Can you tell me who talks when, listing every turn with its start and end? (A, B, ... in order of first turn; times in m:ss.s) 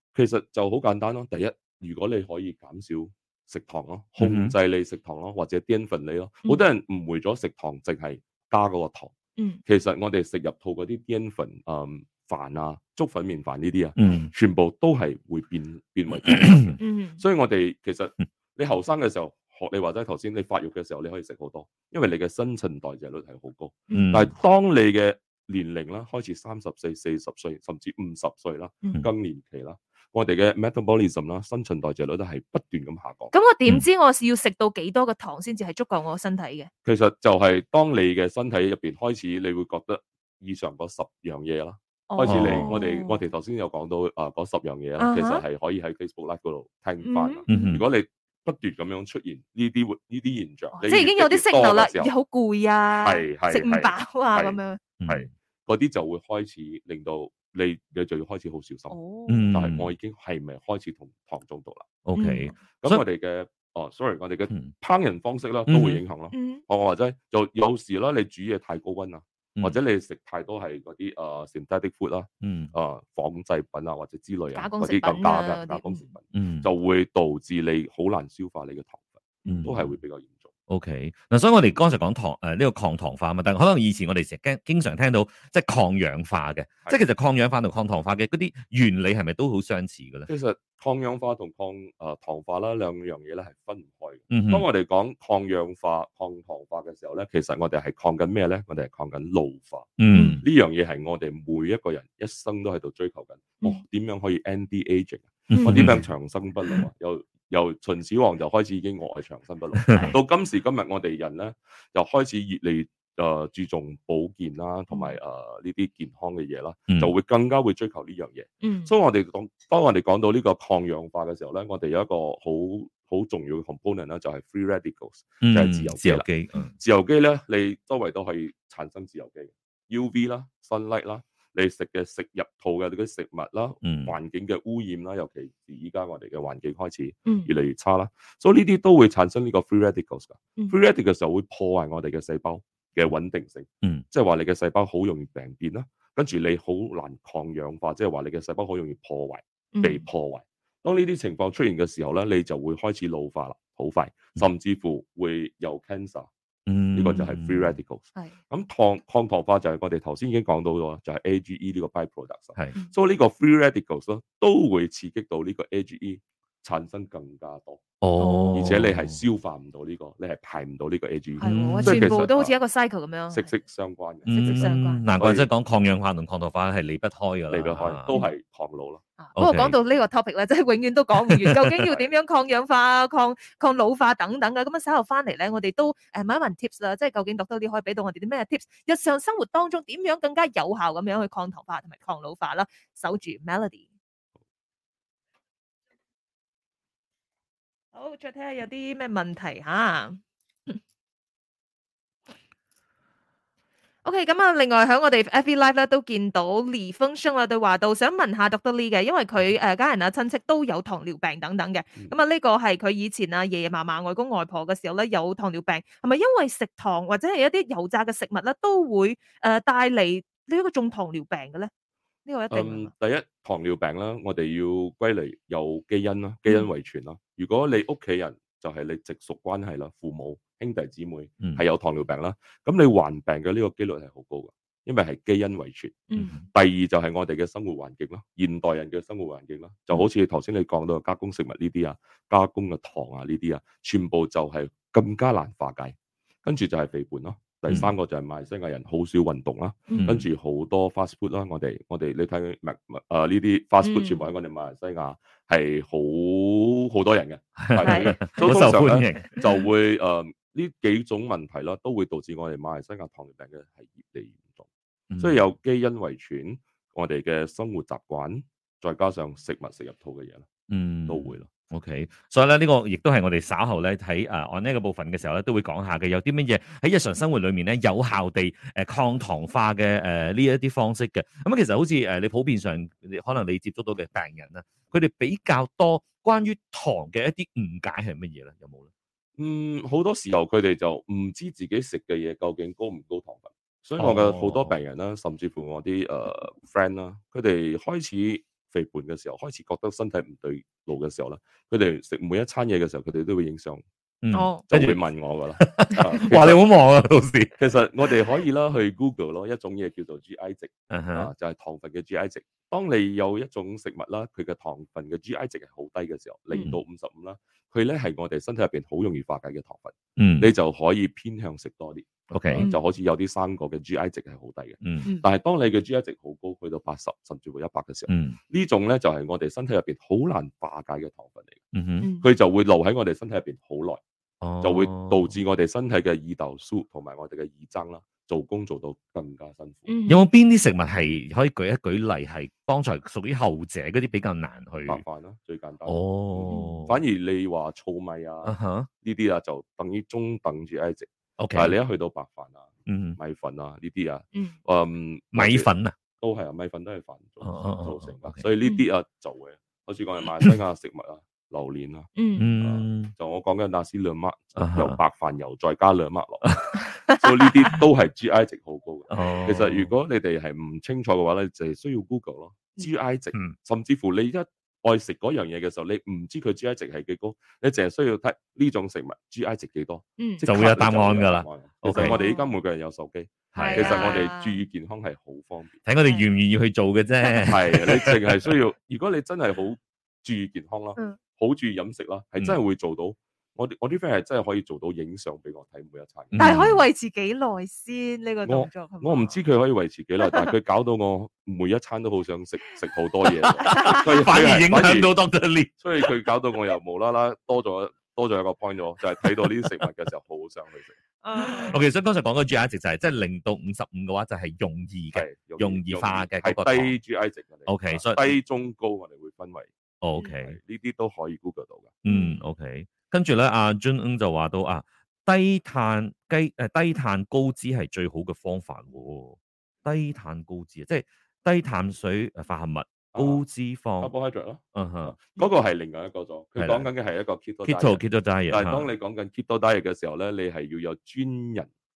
0:00.1-0:09.1 A
0:04.2-0:04.5 B
0:09.6-0:33.3 A
0:14.0-0:14.3 B
0:16.3-0:16.7 B
0:16.8-0:17.2 C
0:23.9-0:24.2 C
0:23.9-0:24.3 B
0:33.3-0:36.7 C
0:36.8-0:52.1 A
0:42.1-0:43.2 C
0:42.2-0:42.8 B
0:45.0-0:45.4 C
0:47.0-0:47.8 C
0:47.5-0:47.8 B
0:50.8-0:54.8 C
0:53.0-0:58.9 A
0:55.0-0:55.3 B
0:58.9-0:59.6 C
0:59.3-0:59.9 B
0:59.5-1:01.9 A
1:02.0-1:03.0 B
1:02.2-1:02.6 C
1:02.8-1:20.5 A
1:05.7-1:06.0 B
1:06.3-1:06.6 C
1:12.4-1:12.7 B
1:14.5-1:16.1 C
1:16.3-1:16.7 B
1:19.4-1:19.7 C
1:19.4-1:19.9 B
1:20.7-1:30.3 B
1:30.3-2:06.3 A
1:34.3-1:34.6 B
1:40.0-1:40.4 B
1:40.1-1:40.4 C
1:45.5-1:46.0 B
1:45.5-1:45.9 C
1:49.9-1:50.2 B
1:49.9-1:50.2 C
1:54.9-1:55.2 C
1:56.9-1:57.1 B
1:58.6-1:58.9 C
2:05.4-2:06.7 B
2:06.8-2:36.3 A
2:13.8-2:14.1 B
2:29.7-2:30.0 C
2:36.6-2:37.8 B
2:36.9-2:47.8 A
2:48.0-2:49.2 B
2:48.2-2:48.8 C
2:48.5-2:52.5 A
2:51.4-2:53.5 C
2:51.4-2:52.2 B
2:53.3-2:55.5 A
2:54.2-2:58.1 B
2:54.3-2:55.0 C
2:57.5-2:59.0 A
2:59.2-3:13.8 C
2:59.4-2:59.8 B
3:01.3-3:01.7 B
3:17.9-3:20.8 C
3:24.0-3:41.7 C
3:42.2-3:42.9 C
3:42.5-4:24.7 A
3:56.1-3:56.3 C
3:56.2-3:56.4 B
4:10.0-4:10.2 B
4:13.8-4:14.2 C
4:17.6-4:19.3 B
4:17.8-4:18.7 C
4:19.4-4:19.6 C
4:25.1-4:25.4 B
4:25.2-4:30.5 A
4:30.7-4:48.9 B
4:31.1-4:31.5 A
4:49.4-5:03.8 A
4:54.0-4:54.7 B
5:04.2-5:05.0 B
5:04.3-5:04.6 C
5:04.7-5:06.6 A
5:05.6-5:07.6 B
5:07.6-5:31.6 A
5:10.9-5:11.3 B
5:20.2-5:20.5 B
5:22.3-5:22.7 B
5:24.8-5:25.1 B
5:28.1-5:28.4 B
5:31.7-5:32.1 B
5:32.2-5:34.0 A
5:34.4-5:35.3 B
5:34.6-5:39.9 A
5:39.9-5:40.2 C
5:40.1-5:45.0 B
5:44.9-6:25.8 A
5:45.8-5:47.0 B
5:46.5-5:46.8 C
5:48.4-5:48.9 B
5:51.4-5:51.8 B
5:52.8-5:53.2 B
5:55.3-5:56.0 B
5:57.4-5:58.4 B
6:02.2-6:02.5 C
6:02.4-6:03.1 B
6:04.6-6:05.0 B
6:06.4-6:06.8 B
6:09.1-6:09.9 B
6:20.4-6:22.2 B
6:21.9-6:22.5 C
6:23.5-6:24.2 B
6:23.6-6:24.6 C
6:25.8-6:28.5 B
6:27.2-6:28.0 C
6:27.5-6:36.6 A
6:36.3-6:36.8 B
6:36.4-6:39.4 C
6:38.4-6:45.1 A
6:40.2-6:40.5 C
6:43.6-6:44.1 C
6:43.6-6:46.1 B
6:45.8-6:51.0 A
6:49.2-6:49.8 B
6:51.2-6:51.8 C
6:51.4-6:57.0 B
6:55.1-6:59.7 A
6:57.6-6:58.3 B
7:00.0-7:00.6 B
7:00.4-7:01.9 A
7:02.0-7:14.1 B
7:02.0-7:02.4 C
7:13.1-7:13.4 A
7:14.0-7:21.7 A
7:14.7-7:15.2 B
7:16.6-7:16.9 B
7:17.6-7:18.9 B